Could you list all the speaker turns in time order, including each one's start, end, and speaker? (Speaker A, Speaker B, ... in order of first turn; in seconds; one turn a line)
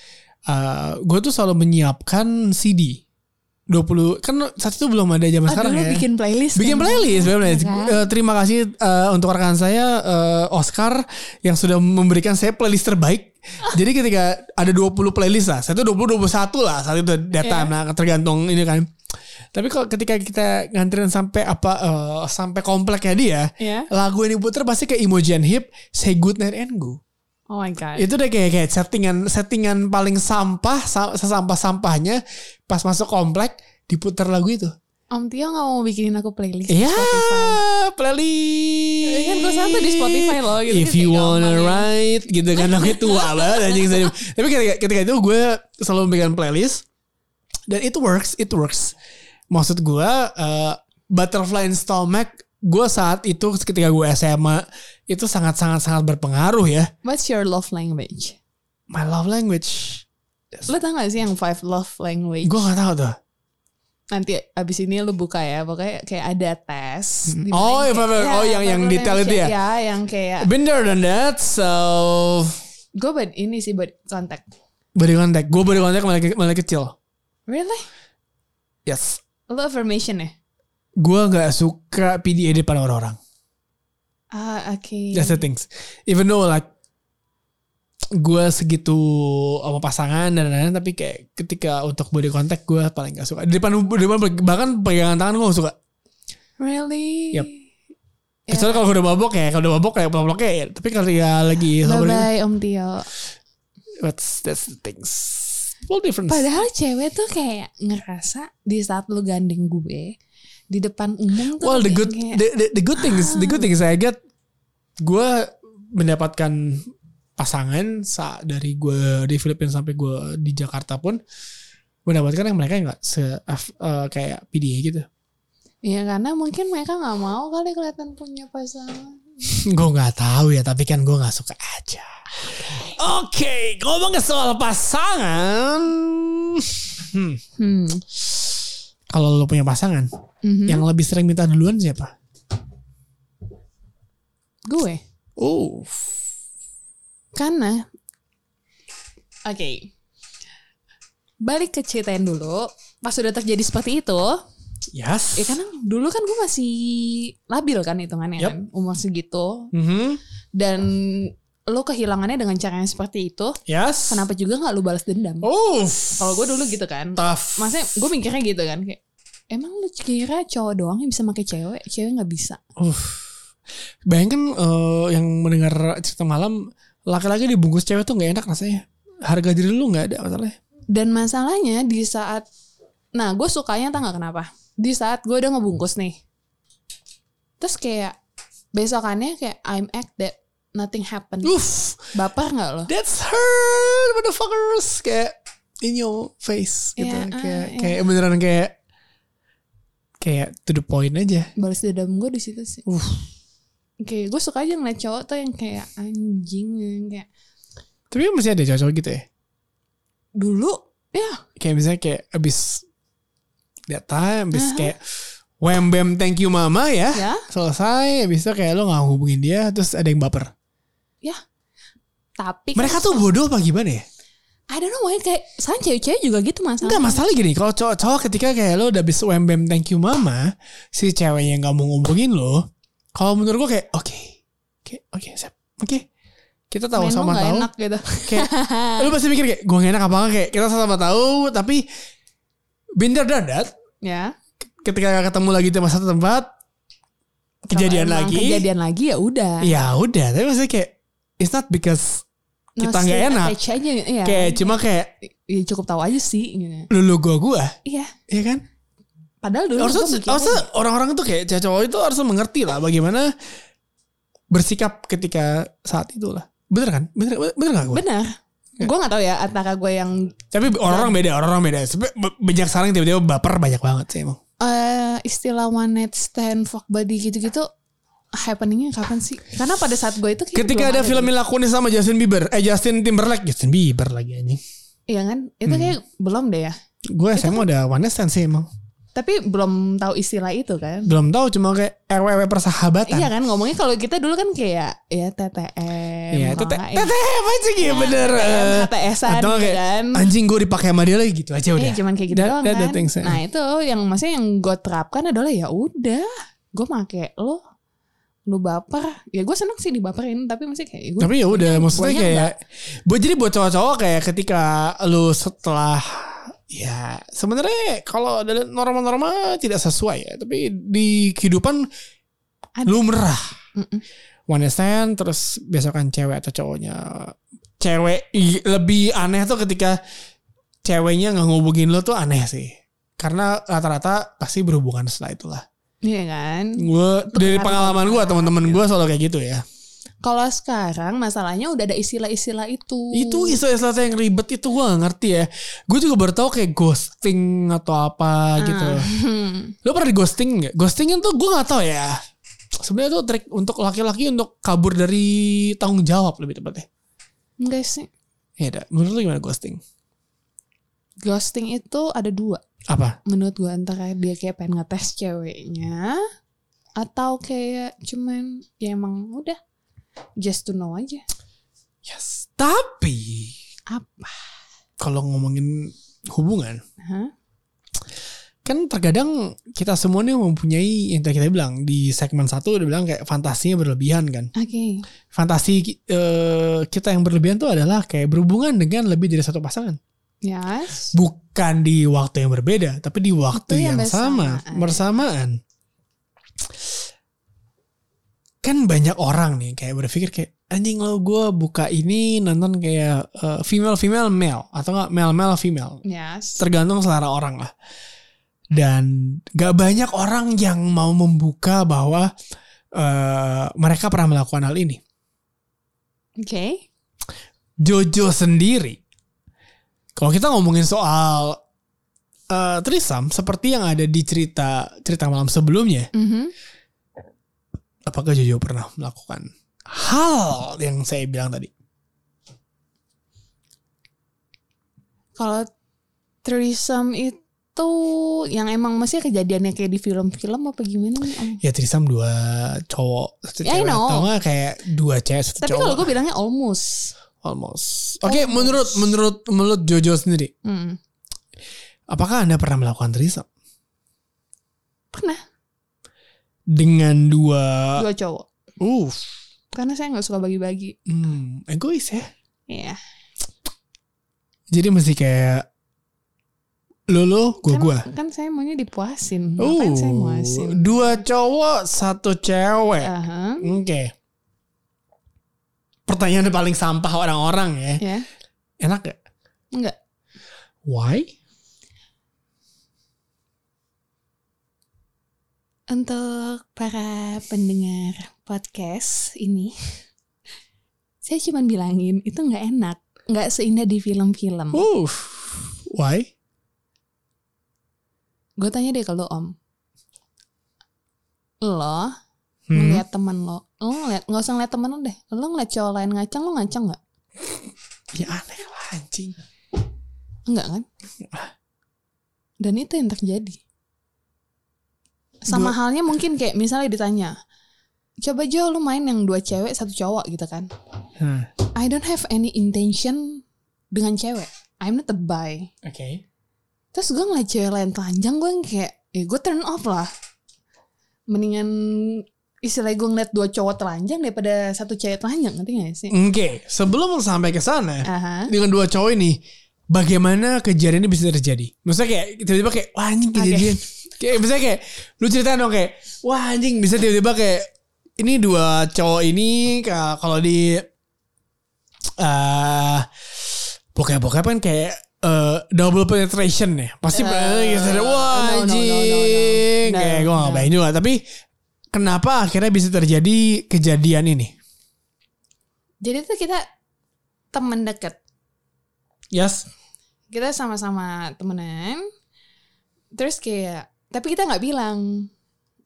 Speaker A: 0.5-3.0
Speaker A: 3.7-6.0
Speaker B: 5.5-8.1
Speaker A: 6.5-18.9
Speaker B: 17.4-17.7
Speaker A: 19.5-27.0
Speaker B: 23.6-23.9
Speaker B: 27.5-28.1
Speaker A: 27.9-34.7
Speaker B: 35.1-37.6
Speaker A: 36.7-46.8
Speaker B: 39.0-41.9
Speaker B: 42.5-44.1
Speaker A: 47.7-48.9
Speaker A: 49.5-56.9
Speaker B: 57.0-58.4
Speaker A: 58.9-60.0
Speaker B: 60.7-62.7
Speaker A: 62.4-63.1
Speaker B: 64.1-70.5
Speaker A: 67.3-69.5
Speaker A: 70.4-72.6
Speaker B: 73.0-74.5
Speaker A: 74.9-77.0
Speaker B: 77.5-77.8
Speaker A: 78.8-79.2
Speaker B: 79.5-80.3
Speaker A: 81.0-83.2
Speaker B: 84.3-85.4
Speaker A: 85.1-86.7
Speaker A: 88.1-95.8
Speaker B: 96.6-97.6
Speaker B: 98.5-98.8
Speaker A: 98.5-102.3
Speaker B: 101.8-103.1
Speaker A: 104.0-106.5
Speaker B: 106.3-110.1
Speaker B: 110.7-112.4
Speaker A: 111.6-114.2
Speaker B: 113.0-113.7
Speaker A: 115.0-121.2
Speaker A: 122.0-125.0
Speaker B: 125.8-129.3
Speaker A: 129.4-137.4
Speaker B: 137.6-138.0
Speaker A: 139.1-140.1
Speaker B: 140.4-140.8
Speaker A: 140.7-142.1
Speaker B: 144.7-145.0
Speaker A: 145.4-146.1
Speaker B: 147.3-147.8
Speaker B: 149.4-149.9
Speaker B: 151.4-154.4
Speaker A: 154.9-155.6
Speaker B: 155.3-159.7
Speaker A: 159.7-160.2
Speaker B: 160.5-165.5
Speaker A: 163.7-164.2
Speaker A: 165.4-166.3
Speaker B: 166.2-169.0
Speaker A: 167.2-167.7
Speaker B: 169.5-172.6
Speaker A: 172.8-173.2
Speaker A: 174.1-180.6
Speaker B: 180.9-182.4
Speaker B: 183.1-186.2
Speaker B: 187.6-188.2
Speaker B: 188.7-191.6
Speaker A: 191.4-192.1
Speaker B: 192.1-192.9
Speaker A: 192.9-198.8
Speaker B: 197.0-198.0
Speaker A: 200.2-201.5
Speaker B: 201.6-202.8
Speaker A: 202.8-203.2
Speaker B: 204.0-207.3
Speaker A: 208.1-209.2
Speaker B: 210.3-211.4
Speaker A: 211.6-212.8
Speaker A: 213.9-215.0
Speaker B: 214.5-214.9
Speaker A: 215.6-220.5
Speaker B: 217.1-217.4
Speaker B: 222.4-223.2
Speaker A: 222.8-224.0
Speaker B: 224.7-227.2
Speaker A: 226.8-236.1
Speaker A: 236.7-237.7
Speaker B: 236.9-239.1
Speaker A: 238.3-241.8
Speaker A: 243.0-243.7
Speaker B: 244.0-244.3
Speaker A: 244.8-246.5
Speaker B: 247.7-249.7
Speaker A: 247.7-248.7
Speaker A: 249.6-252.2
Speaker B: 252.8-254.8
Speaker A: 252.8-253.6
Speaker A: 254.2-255.1
Speaker B: 255.4-256.9
Speaker A: 256.9-257.8
Speaker B: 257.8-258.1
Speaker A: 258.3-258.6
Speaker B: 259.4-260.6
Speaker A: 259.8-263.3
Speaker A: 264.5-268.0
Speaker B: 267.9-271.1
Speaker A: 270.5-274.4
Speaker B: 274.6-277.7
Speaker B: 278.3-281.3
Speaker A: 280.5-284.6
Speaker B: 285.1-286.8
Speaker A: 285.6-285.9
Speaker A: 287.1-288.7
Speaker B: 287.3-287.7
Speaker B: 289.1-291.1
Speaker A: 291.1-293.3
Speaker B: 293.1-297.1
Speaker A: 296.3-303.4
Speaker B: 297.8-300.2
Speaker B: 301.8-307.6
Speaker B: 308.5-312.5
Speaker A: 311.2-321.9
Speaker A: 322.9-323.5
Speaker B: 323.8-324.0
Speaker A: 324.5-330.0
Speaker A: 330.8-335.6
Speaker B: 336.0-338.8
Speaker A: 336.8-339.6
Speaker B: 340.2-343.6
Speaker A: 343.1-349.1
Speaker B: 348.6-349.7
Speaker A: 349.8-352.2
Speaker A: 352.8-356.9
Speaker B: 357.6-358.1
Speaker A: 358.6-359.8
Speaker B: 361.2-362.6
Speaker A: 362.9-363.2
Speaker B: 363.2-366.2
Speaker B: 367.0-369.6
Speaker B: 370.4-371.2
Speaker A: 372.0-373.6
Speaker B: 373.9-374.4
Speaker A: 375.0-376.8
Speaker B: 377.0-377.3
Speaker A: 378.6-384.5
Speaker B: 384.5-385.0
Speaker A: 385.3-390.0
Speaker B: 390.4-391.1
Speaker A: 391.1-395.6
Speaker B: 393.5-395.1
Speaker A: 398.6-406.0
Speaker B: 406.0-406.6
Speaker A: 406.6-407.7
Speaker A: 408.7-412.3
Speaker A: 412.9-415.0
Speaker B: 416.4-416.8
Speaker A: 417.8-419.0
Speaker A: 420.1-421.6
Speaker A: 422.5-426.1
Speaker B: 426.1-426.5
Speaker A: 428.1-431.7
Speaker B: 435.4-435.6
Speaker B: 436.4-441.6
Speaker A: 441.6-446.1
Speaker B: 443.6-444.3
Speaker B: 445.6-447.1
Speaker A: 447.4-450.5
Speaker B: 448.2-449.1
Speaker B: 450.6-451.0
Speaker A: 452.1-453.4
Speaker B: 455.1-455.4
Speaker A: 456.7-458.0
Speaker B: 457.9-458.5
Speaker A: 458.8-459.3
Speaker B: 459.7-460.9
Speaker A: 461.1-462.3
Speaker B: 462.7-463.0
Speaker A: 464.7-465.6
Speaker A: 467.1-468.1
Speaker B: 467.6-471.1
Speaker A: 469.6-474.1
Speaker B: 473.0-473.7
Speaker A: 476.1-478.0
Speaker B: 478.0-478.2
Speaker A: 478.8-479.2
Speaker A: 480.8-481.3
Speaker B: 485.9-489.7
Speaker B: 491.2-494.8
Speaker A: 494.7-496.3
Speaker B: 498.6-499.5
Speaker B: 501.6-502.1
Speaker A: 502.7-503.0
Speaker B: 502.7-507.0
Speaker A: 508.1-509.4
Speaker B: 510.5-510.9
Speaker A: 511.2-511.5
Speaker B: 512.6-513.6
Speaker B: 515.4-517.3
Speaker A: 515.5-515.8
Speaker B: 518.2-520.7
Speaker A: 521.2-521.5
Speaker B: 521.7-525.7
Speaker A: 525.8-526.2
Speaker B: 526.9-530.1
Speaker B: 531.3-536.1
Speaker A: 536.1-539.4
Speaker B: 538.0-538.5
Speaker A: 539.9-550.9
Speaker B: 543.3-543.8
Speaker A: 552.2-561.2
Speaker B: 557.1-560.7
Speaker A: 561.9-564.5
Speaker B: 566.0-566.6
Speaker B: 567.5-568.2
Speaker A: 569.3-569.6
Speaker B: 570.3-572.0
Speaker B: 573.1-575.3